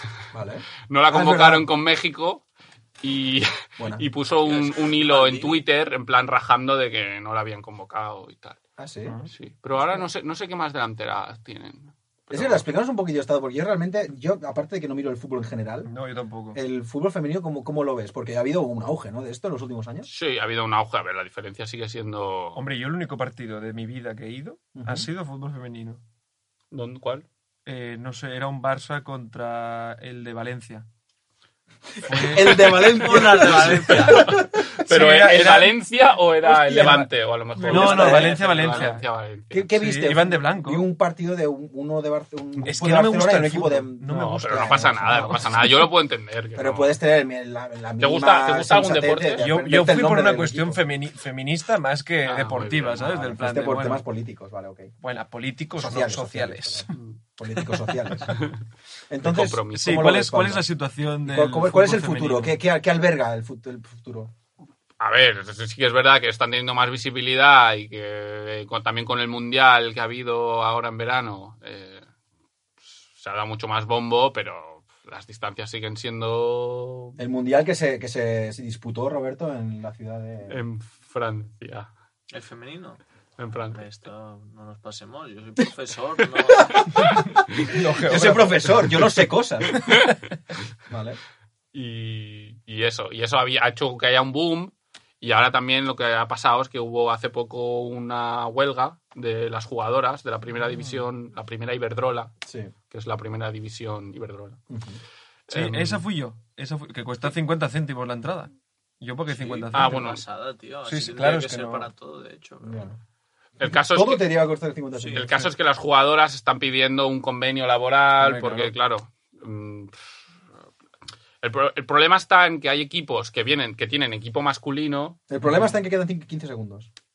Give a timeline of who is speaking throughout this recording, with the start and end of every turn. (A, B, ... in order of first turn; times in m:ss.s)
0:00.3-0:01.6 A
0:00.9-0:02.4 B
0:03.0-0:08.6 B
0:03.8-0:04.0 A
0:04.4-0:05.6 C
0:08.8-0:09.2 A
0:09.3-0:12.7 B
0:09.8-0:10.0 A
0:12.3-0:15.9 A
0:15.8-0:16.6 D
0:16.5-0:20.1 A
0:20.0-0:22.6 B
0:22.5-0:26.0 D
0:24.7-0:25.1 A
0:26.7-0:27.2 B
0:27.6-0:30.8 D
0:32.0-0:34.7 A
0:32.0-0:32.9 D
0:32.4-0:33.5 B
0:32.8-0:34.3 C
0:33.6-0:35.8 D
0:34.0-0:39.7 B
0:36.4-0:37.1 A
0:37.6-0:39.0 D
0:37.6-0:38.4 A
0:39.5-0:45.6 A
0:39.7-0:40.9 D
0:42.6-0:45.8 D
0:44.1-0:47.0 B
0:46.5-0:50.8 A
0:48.0-0:49.6 B
0:49.4-0:54.0 D
0:52.2-0:53.2 B
0:53.0-0:54.9 A
0:55.0-0:56.9 D
0:55.8-0:58.4 A
0:58.3-0:58.5 B
0:59.1-1:00.6 A
0:59.2-1:00.2 B
0:59.7-1:02.6 D
1:01.2-1:04.3 A
1:05.0-1:12.0 B
1:13.2-1:17.2 B
1:17.2-1:20.6 A
1:20.5-1:21.9 B
1:22.3-1:23.0 C
1:23.4-1:23.9 B
1:23.7-1:26.9 C
1:26.8-1:27.0 A
1:27.1-1:29.2 D
1:27.6-1:29.8 A
1:29.9-1:30.1 B
1:30.9-1:31.2 A
1:31.7-1:42.3 B
1:40.6-1:41.0 D
1:42.4-1:42.7 A
1:42.9-1:44.6 B
1:44.7-1:45.0 A
1:45.5-1:46.0 B
1:45.5-1:50.0 D
1:49.2-1:53.0 C
1:49.7-1:50.2 B
1:50.8-1:51.9 D
1:52.6-1:53.0 A
1:53.6-1:54.3 B
1:53.6-1:55.4 A
1:54.9-1:55.3 C
1:55.1-1:59.9 B
1:58.2-1:58.7 D
2:01.4-2:05.2 B
2:05.3-2:06.9 A